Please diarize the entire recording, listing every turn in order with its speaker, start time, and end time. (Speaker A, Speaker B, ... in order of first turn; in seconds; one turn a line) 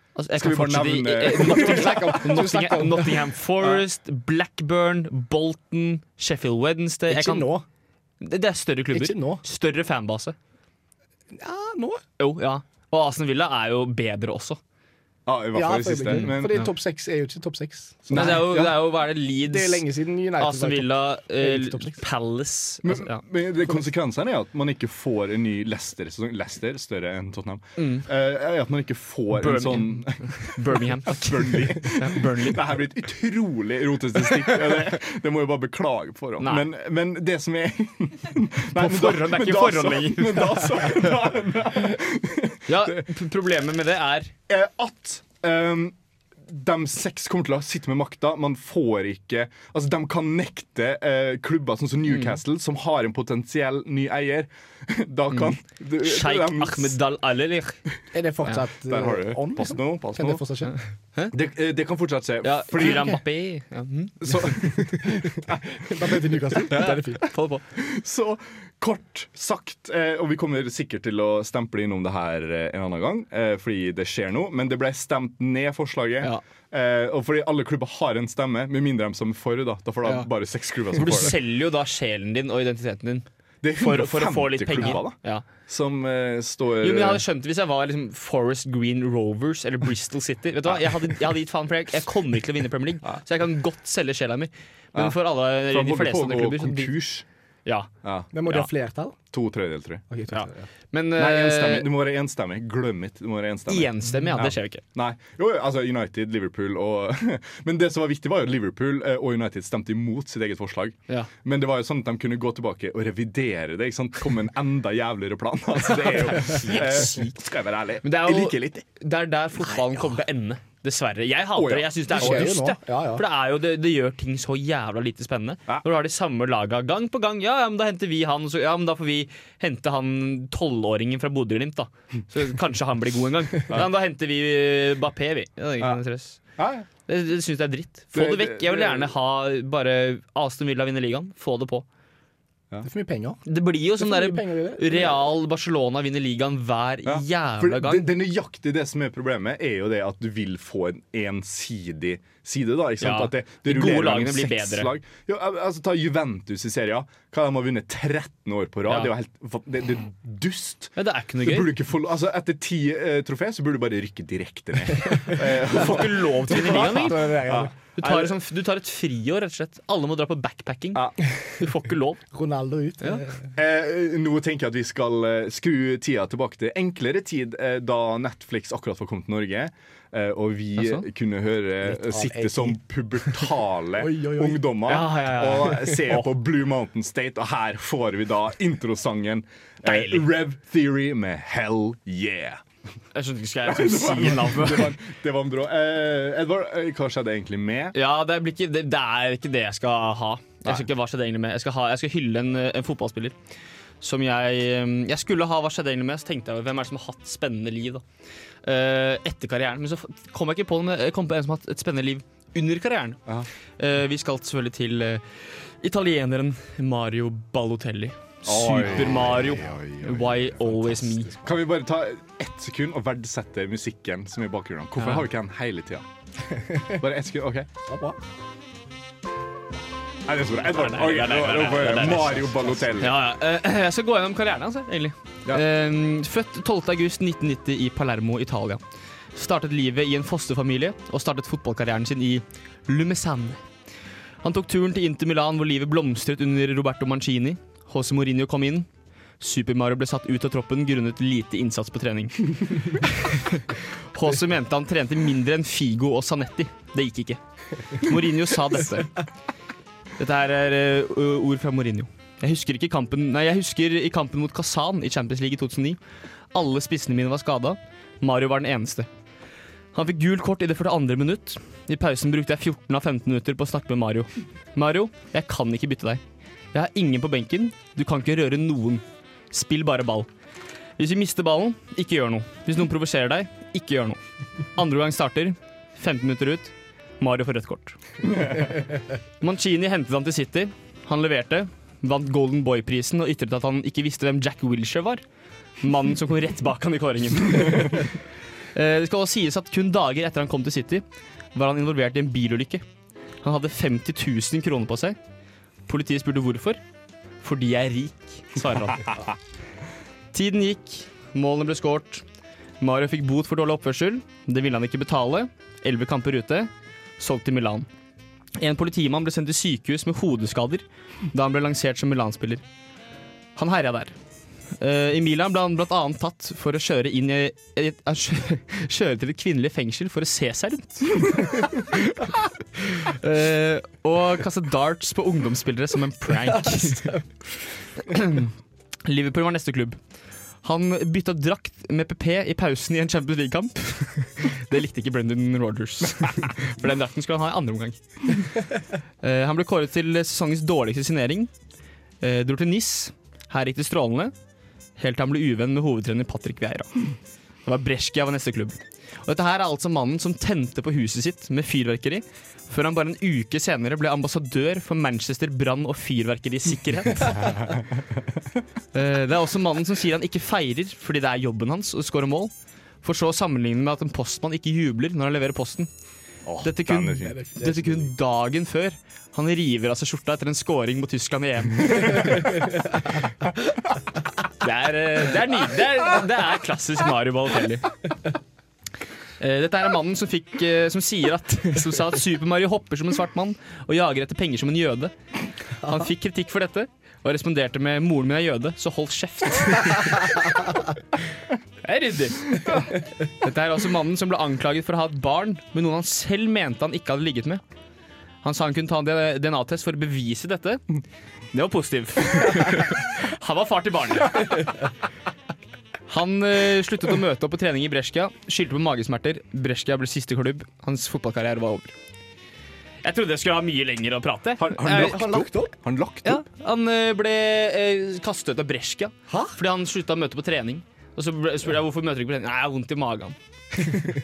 Speaker A: 0.2-7.5
Speaker B: 0.3-2.7
Speaker C: 1.5-3.2
Speaker C: 7.1-7.7
Speaker A: 8.2-10.3
Speaker C: 8.9-9.4
Speaker C: 11.3-12.0
Speaker A: 12.2-14.6
Speaker B: 15.3-16.7
Speaker C: 15.5-18.8
Speaker A: 16.1-16.7
Speaker B: 18.1-18.8
Speaker A: 18.1-19.9
Speaker C: 19.4-22.0
Speaker A: 20.4-23.2
Speaker B: 22.8-43.1
Speaker A: 27.8-28.1
Speaker A: 29.3-32.6
Speaker A: 36.4-36.6
Speaker A: 38.8-40.8
Speaker A: 42.7-44.3
Speaker B: 44.5-46.0
Speaker B: 46.5-57.0
Speaker A: 52.1-52.4
Speaker A: 55.3-57.8
Speaker C: 58.1-60.8
Speaker B: 58.8-60.4
Speaker B: 61.3-63.2
Speaker A: 62.4-65.0
Speaker B: 64.2-65.6
Speaker C: 65.8-67.3
Speaker B: 66.7-67.1
Speaker A: 66.7-67.6
Speaker B: 67.7-81.4
Speaker A: 80.9-83.3
Speaker B: 83.6-87.2
Speaker A: 83.8-85.5
Speaker A: 86.8-97.0
Speaker B: 90.7-91.1
Speaker B: 94.9-97.2
Speaker B: 98.0-98.3
Speaker C: 98.3-99.2
Speaker B: 99.3-100.0
Speaker C: 100.1-100.7
Speaker A: 100.3-101.9
Speaker B: 101.2-118.8
Speaker A: 103.7-104.8
Speaker A: 115.9-117.4
Speaker A: 118.0-136.4
Speaker B: 121.5-122.6
Speaker C: 122.1-123.2
Speaker B: 136.6-136.9
Speaker A: 137.1-141.9
Speaker B: 138.1-139.1
Speaker C: 142.8-143.4
Speaker A: 143.5-148.1
Speaker C: 144.0-145.2
Speaker B: 147.1-168.3
Speaker A: 153.0-154.9
Speaker A: 158.9-159.1
Speaker A: 161.0-161.7
Speaker A: 165.6-167.4
Speaker C: 166.5-167.7
Speaker A: 168.0-172.2
Speaker C: 172.3-173.5
Speaker B: 173.6-192.6
Speaker A: 180.8-181.1
Speaker C: 181.8-183.4
Speaker C: 184.0-184.7
Speaker A: 184.9-186.3
Speaker A: 189.8-190.3
Speaker A: 193.1-195.0
Speaker B: 193.6-198.0
Speaker A: 197.9-203.4
Speaker A: 204.0-208.0
Speaker A: 208.6-213.2
Speaker A: 213.8-221.4
Speaker B: 218.4-226.1
Speaker A: 225.0-225.3
Speaker B: 226.9-227.7
Speaker C: 227.9-228.2
Speaker B: 230.2-233.2
Speaker A: 230.7-238.8
Speaker A: 239.3-243.6
Speaker A: 244.4-248.9
Speaker A: 249.4-257.4
Speaker A: 257.9-259.2
Speaker A: 260.2-266.0
Speaker A: 266.5-269.1
Speaker A: 269.9-276.2
Speaker A: 276.7-280.3
Speaker A: 281.0-284.2
Speaker A: 284.8-288.0
Speaker A: 289.4-295.2
Speaker A: 295.8-298.2
Speaker A: 298.7-301.0
Speaker A: 301.6-302.8
Speaker A: 303.4-305.2
Speaker A: 305.9-306.8
Speaker A: 307.4-309.2
Speaker A: 310.3-312.2
Speaker A: 312.8-317.9
Speaker A: 318.6-322.6
Speaker A: 323.6-324.1
Speaker A: 324.8-337.2
Speaker C: 336.5-337.2
Speaker A: 338.0-338.5
Speaker A: 339.1-340.0
Speaker A: 340.6-348.4
Speaker A: 349.2-351.5
Speaker A: 352.2-354.3
Speaker A: 355.0-357.0
Speaker A: 357.6-367.7
Speaker A: 368.9-372.5
Speaker A: 373.0-375.9
Speaker B: 376.4-377.4
Speaker A: 376.6-382.6
Speaker C: 377.2-378.1
Speaker A: 384.6-387.9
Speaker A: 389.4-395.1
Speaker A: 395.8-400.5
Speaker A: 401.8-407.6
Speaker A: 408.4-410.8
Speaker A: 411.5-414.7
Speaker A: 416.1-421.9
Speaker A: 423.0-425.4
Speaker B: 424.6-426.5
Speaker C: 424.9-425.7
Speaker A: 426.2-434.1
Speaker C: 429.3-429.6